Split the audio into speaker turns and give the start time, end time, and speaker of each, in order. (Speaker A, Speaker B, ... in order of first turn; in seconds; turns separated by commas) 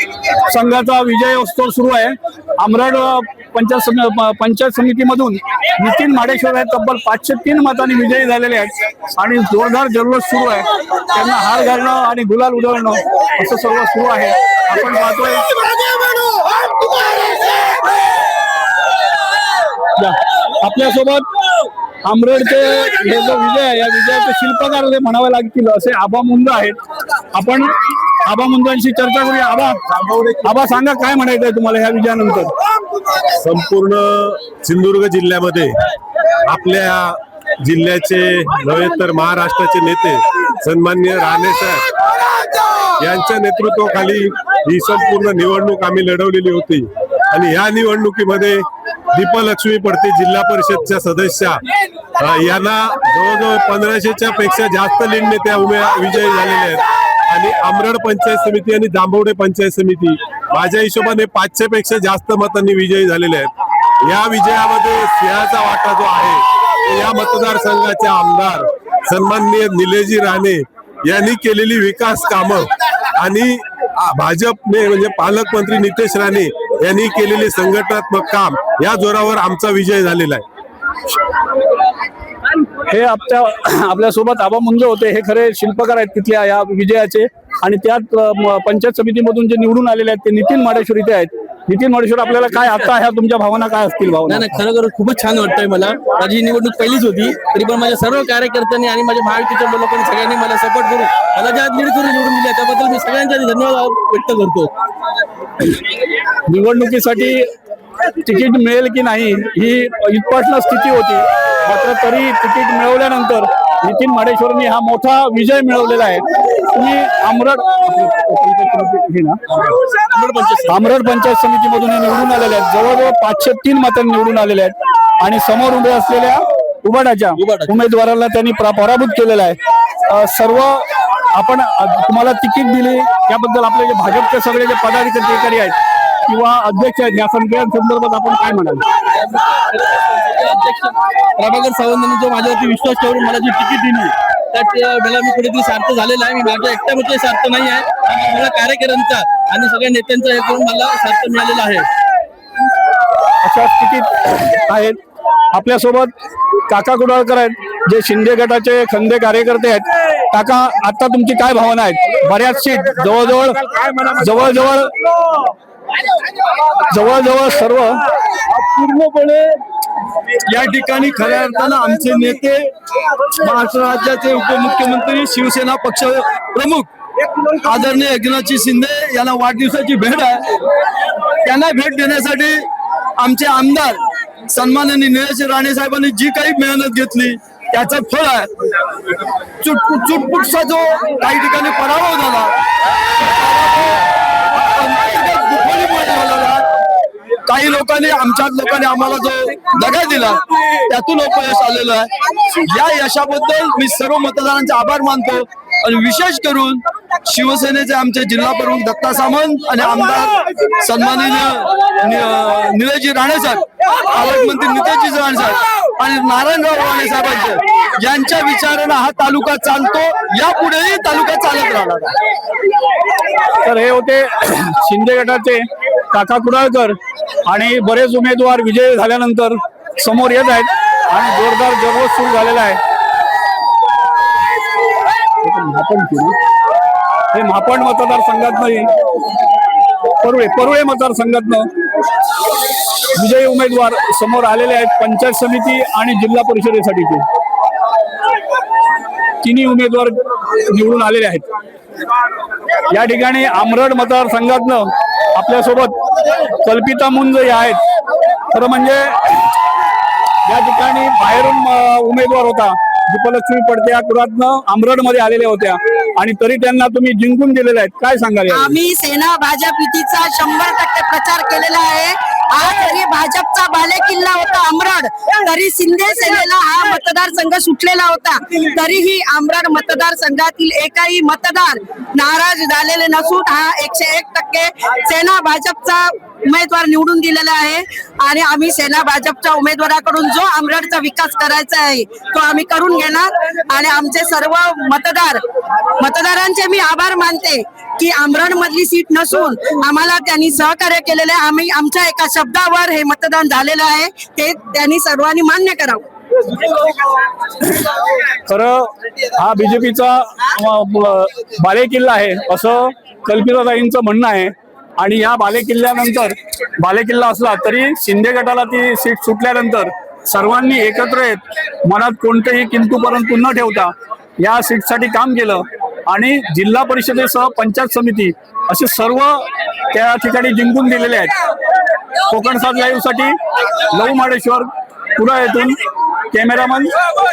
Speaker A: 0.4-15.4, Speaker A: 19.9-21.3, Speaker A: 22.1-26.8, Speaker A: 27.3-29.8, Speaker B: 29.9-30.4, Speaker A: 30.4-32.5, Speaker B: 33.4-35.8, Speaker B: 36.5-41.9, Speaker B: 43.0-51.6, Speaker B: 52.2-63.5, Speaker B: 64.0-80.5, Speaker A: 82.9-94.6, Speaker C: 94.3-104.7, Speaker A: 106.5-107.5, Speaker A: 108.2-119.4, Speaker C: 119.5-120.7, Speaker A: 120.7-135.8, Speaker C: 127.4-127.7, Speaker A: 136.3-138.8, Speaker C: 139.1-151.9, Speaker A: 153.4-155.0, Speaker A: 155.5-156.1, Speaker A: 156.7-164.9, Speaker A: 166.9-168.0, Speaker D: 168.6-169.4, Speaker D: 170.5-172.7, Speaker D: 173.3-176.9, Speaker D: 177.6-180.5, Speaker D: 181.4-188.5, Speaker D: 189.6-192.5, Speaker D: 193.2-196.7, Speaker D: 197.5-222.1, Speaker A: 223.6-232.8, Speaker A: 235.4-236.4, Speaker A: 237.3-238.9, Speaker A: 240.2-241.7, Speaker A: 243.1-247.2, Speaker A: 249.4-251.4, Speaker A: 252.9-256.0, Speaker A: 256.6-257.8, Speaker A: 258.5-259.5, Speaker A: 260.5-268.8, Speaker E: 268.5-295.4, Speaker E: 296.0-306.0, Speaker A: 308.5-331.4, Speaker A: 332.3-337.0